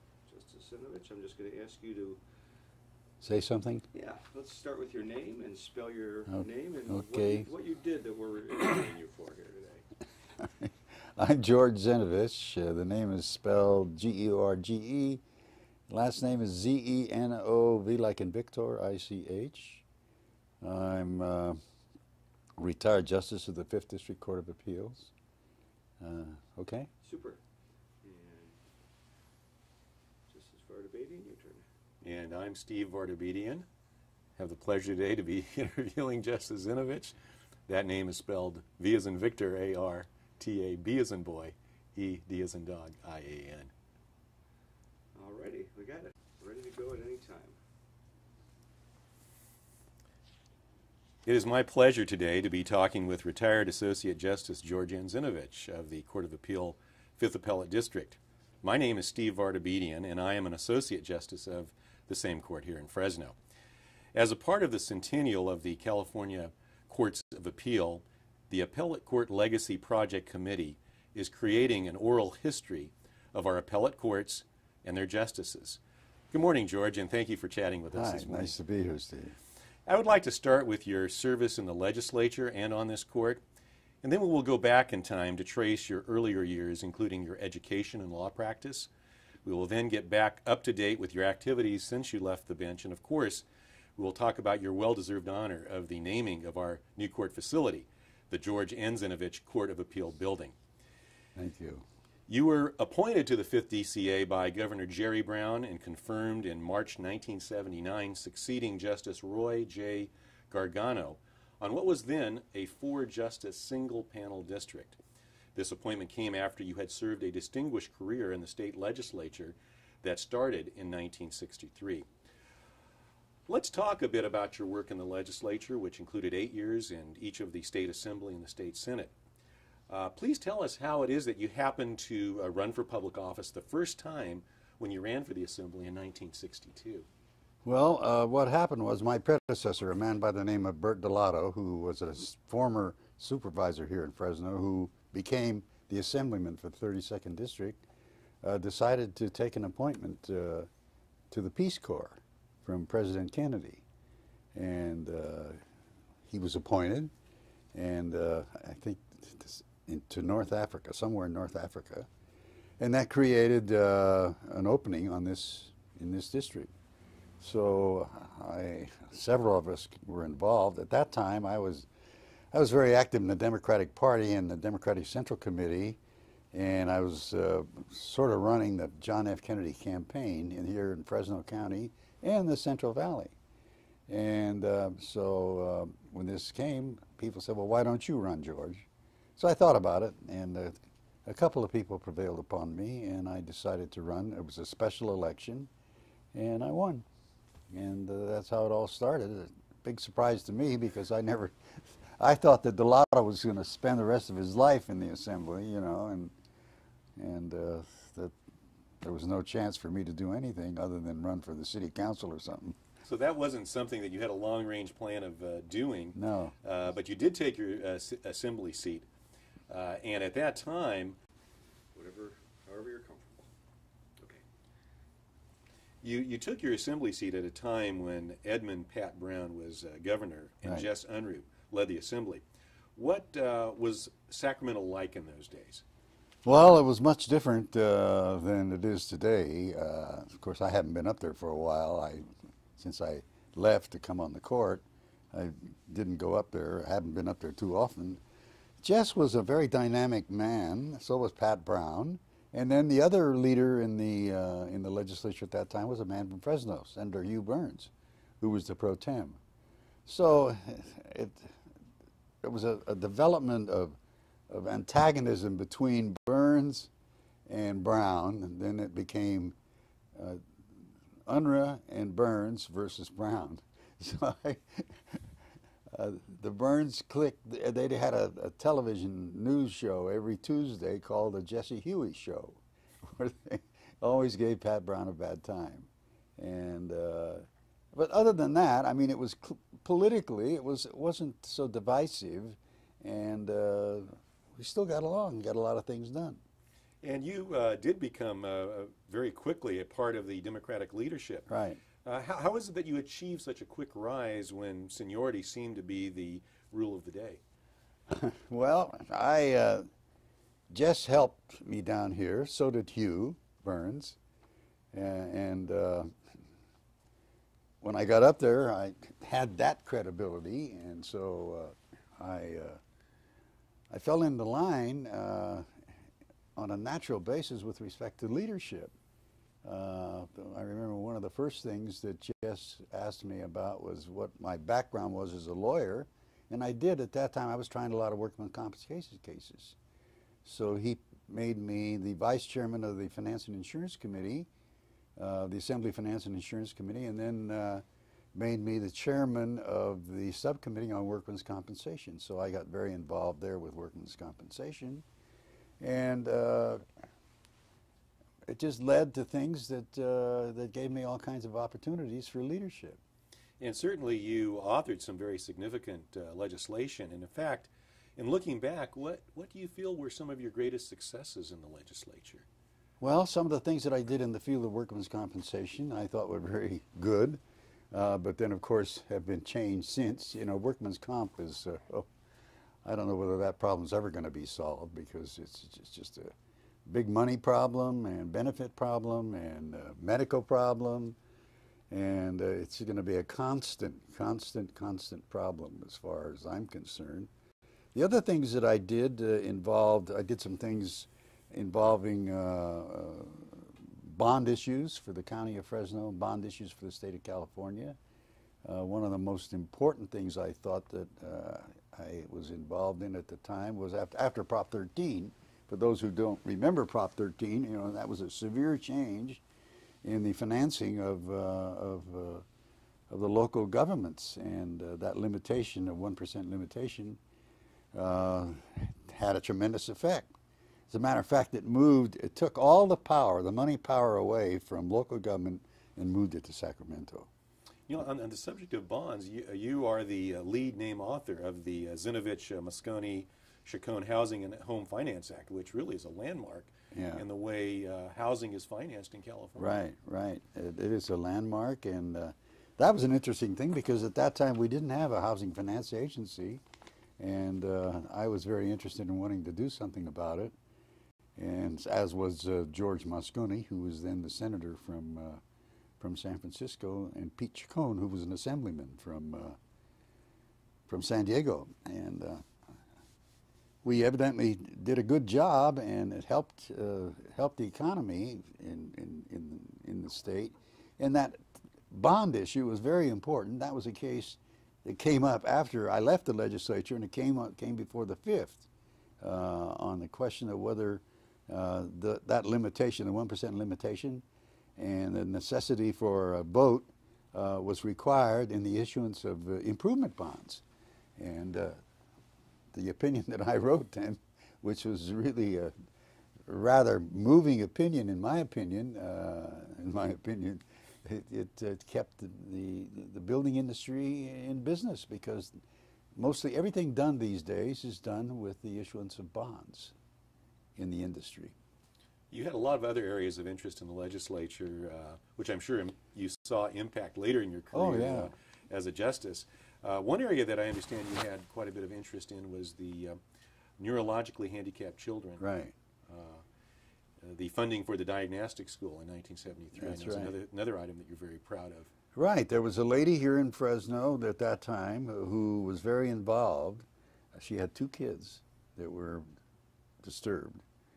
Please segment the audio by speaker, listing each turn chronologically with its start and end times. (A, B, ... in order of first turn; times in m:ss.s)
0:00.3-0:02.2 A
0:03.2-0:03.9 B
0:03.9-0:09.8 A
0:06.3-0:07.5 B
0:10.4-0:15.2 B
0:15.9-0:19.8 B
0:20.6-0:21.6 B
0:22.6-0:25.1 B
0:26.0-0:26.9 B
0:27.0-0:27.4 A
0:28.0-0:28.6 A
0:30.3-0:31.6 A
0:32.0-0:33.7 C
0:34.4-0:37.2 C
0:37.7-0:43.7 C
0:45.2-0:47.6 A
0:51.2-1:03.4 C
1:04.1-1:15.8 C
1:16.3-1:18.6 C
1:17.9-1:19.4 B
1:19.9-1:23.4 C
1:24.0-1:28.9 C
1:29.4-1:33.4 C
1:34.0-1:40.6 C
1:41.4-1:41.8 B
1:42.3-1:55.0 C
1:55.6-2:02.1 C
2:03.5-2:09.1 C
2:09.9-2:17.1 C
2:17.6-2:27.8 B
2:28.4-2:30.7 B
2:31.3-2:33.8 B
2:34.6-2:35.6 B
2:36.3-2:37.1 B
2:37.7-2:42.1 B
2:42.8-2:46.7 B
2:47.4-2:51.9 B
2:52.5-2:56.0 B
2:56.5-3:03.4 B
3:04.1-3:08.9 B
3:09.4-3:15.7 B
3:16.3-3:17.0 B
3:17.7-3:21.6 B
3:22.2-3:26.3 B
3:27.2-3:28.3 B
3:29.0-3:32.8 B
3:33.0-3:39.1 C
3:36.2-3:36.5 B
3:39.7-3:41.2 C
3:42.0-3:43.5 A
3:46.0-3:52.4 C
3:53.0-3:55.8 C
3:56.4-4:02.3 B
4:02.8-4:08.2 B
4:08.8-4:19.4 B
4:20.1-4:21.5 B
4:22.4-4:24.0 B
4:24.5-4:26.9 B
4:27.5-4:29.6 B
4:30.2-4:30.4 B
4:31.3-4:35.2 B
4:35.9-4:56.4 B
4:57.0-5:01.5 C
5:01.5-5:01.8 B
5:02.0-5:07.4 C
5:08.1-5:09.9 B
5:10.7-5:14.2 B
5:14.9-5:16.1 B
5:17.8-5:22.8 B
5:23.9-5:25.7 B
5:26.6-5:28.9 B
5:29.6-5:39.8 B
5:40.4-5:44.5 B
5:45.2-5:47.8 B
5:48.4-5:55.0 B
5:55.8-5:56.8 B
5:58.5-6:03.0 B
6:03.6-6:12.5 C
6:13.0-6:22.1 B
6:22.8-6:26.3 B
6:26.9-6:31.2 B
6:31.9-6:37.3 B
6:38.0-6:48.0 B
6:48.6-6:59.4 B
7:00.0-7:02.4 B
7:03.1-7:07.2 B
7:07.9-7:10.3 B
7:10.9-7:17.3 B
7:17.9-7:29.8 C
7:26.9-7:27.2 B
7:29.6-7:36.6 B
7:37.2-7:40.6 B
7:41.4-7:45.4 B
7:46.0-7:49.6 B
7:50.9-7:52.5 B
7:53.8-8:01.4 B
8:01.9-8:08.6 B
8:09.2-8:14.2 B
8:14.8-8:20.6 B
8:21.2-8:21.8 B
8:22.7-8:25.7 B
8:26.5-8:35.6 B
8:36.2-8:39.9 B
8:40.8-8:41.6 B
8:42.3-8:53.2 C
8:47.7-8:48.3 B
8:53.8-8:55.4 C
8:55.4-8:55.7 B
8:56.1-8:56.4 C
8:57.2-9:01.9 C
8:59.8-9:00.3 B
9:02.1-9:09.3 B
9:10.0-9:10.6 B